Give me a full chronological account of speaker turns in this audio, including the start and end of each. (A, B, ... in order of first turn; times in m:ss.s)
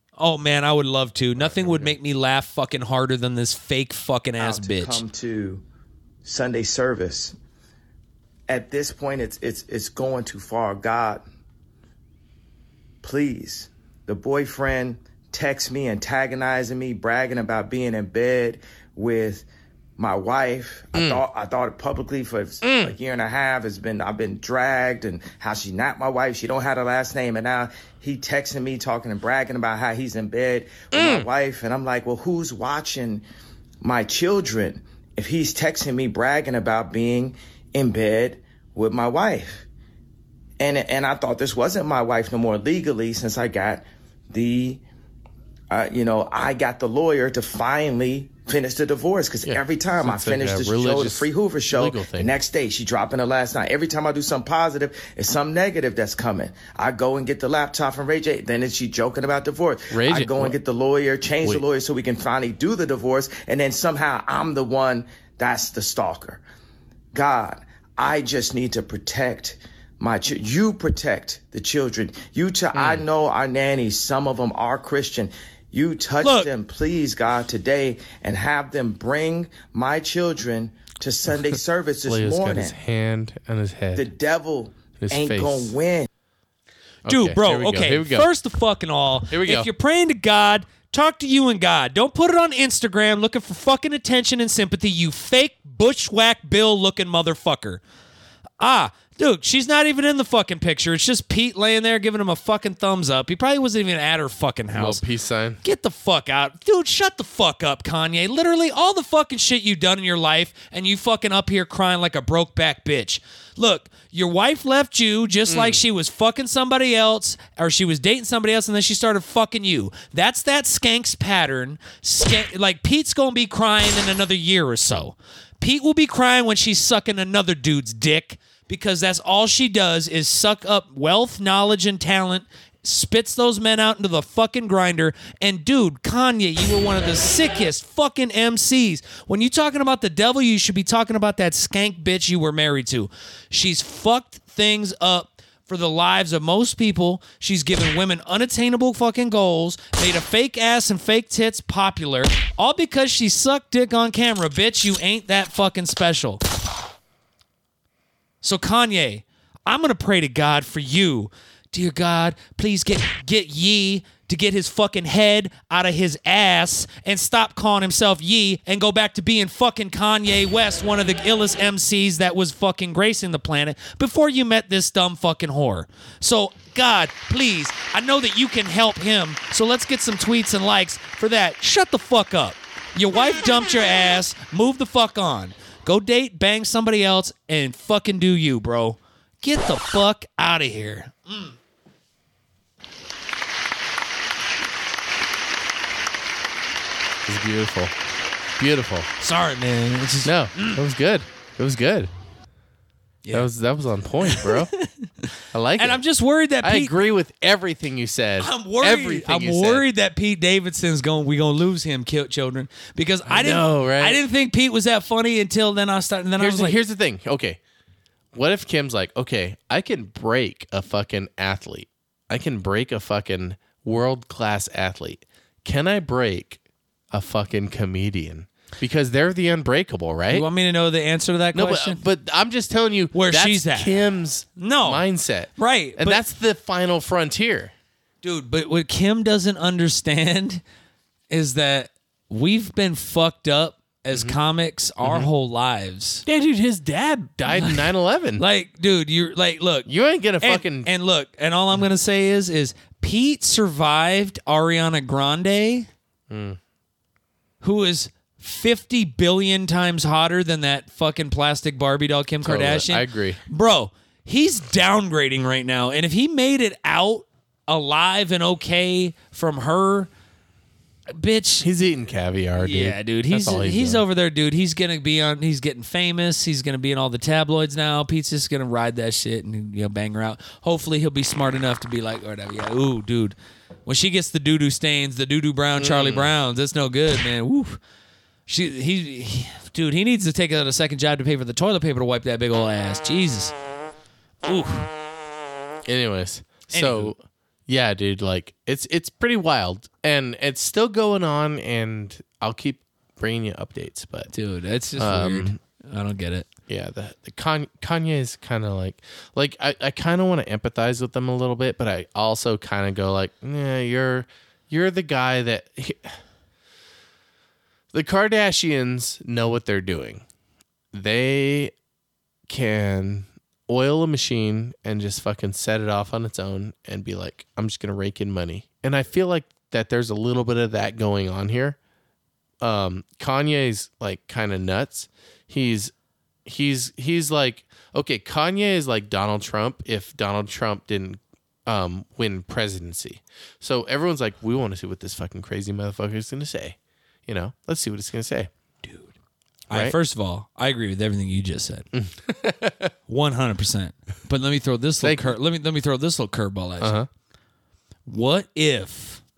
0:00.2-0:05.0 A
0:01.4-0:02.0 B
0:04.4-0:05.6 C
0:06.2-0:07.4 C
0:08.5-0:11.2 C
0:13.0-0:19.5 C
0:20.0-0:33.2 C
0:20.9-0:21.2 B
0:22.6-0:23.0 B
0:30.9-0:31.3 B
0:33.8-0:39.7 C
0:40.6-0:44.8 C
0:45.7-1:06.4 C
0:49.4-0:52.3 B
0:59.9-1:00.6 B
1:07.1-1:22.8 C
1:12.7-1:13.0 B
1:16.2-1:16.5 A
1:22.0-1:24.1 B
1:24.0-1:26.1 C
1:25.0-1:25.8 B
1:27.0-1:28.3 B
1:27.1-1:37.8 A
1:29.3-1:29.7 B
1:38.6-1:45.0 A
1:44.7-1:45.6 B
1:45.6-2:36.4 A
1:55.5-1:55.8 B
2:38.4-3:11.6 A
3:17.3-3:17.9 B
3:18.6-3:19.1 B
3:19.2-3:20.8 A
3:20.2-3:22.1 B
3:23.3-3:24.7 B
3:24.2-3:27.0 A
3:25.5-3:26.0 B
3:26.6-3:29.8 B
3:28.4-3:36.8 A
3:33.3-3:34.2 B
3:36.4-3:37.6 B
3:38.3-3:50.5 B
3:50.3-3:52.0 A
3:51.5-3:57.7 B
3:53.1-3:54.0 A
3:54.6-3:55.0 A
3:55.6-3:56.2 A
3:58.2-4:00.6 A
4:01.3-4:06.2 A
4:04.1-4:04.4 B
4:05.0-4:05.3 B
4:06.3-4:08.4 B
4:07.5-4:15.9 A
4:09.9-4:10.9 B
4:16.3-4:16.6 B
4:17.6-4:30.1 A
4:22.4-4:23.4 B
4:31.1-4:31.7 A
4:31.6-4:34.0 B
4:32.6-4:47.8 A
4:45.8-4:46.3 B
4:48.5-4:53.5 A
4:54.4-4:54.9 A
4:55.9-5:04.3 B
4:56.7-4:57.1 A
5:04.3-5:06.5 A
5:05.0-5:05.6 B
5:06.7-5:16.2 B
5:17.9-5:20.2 B
5:20.9-5:21.7 B
5:22.5-5:31.8 B
5:32.6-5:35.9 B
5:36.5-5:48.5 B
5:48.8-5:49.1 A
5:49.7-5:50.0 B
5:49.7-5:51.9 A
5:51.9-5:52.9 B
5:53.1-5:57.0 A
5:55.0-5:55.4 B
5:56.8-5:57.1 B
5:58.1-5:59.2 A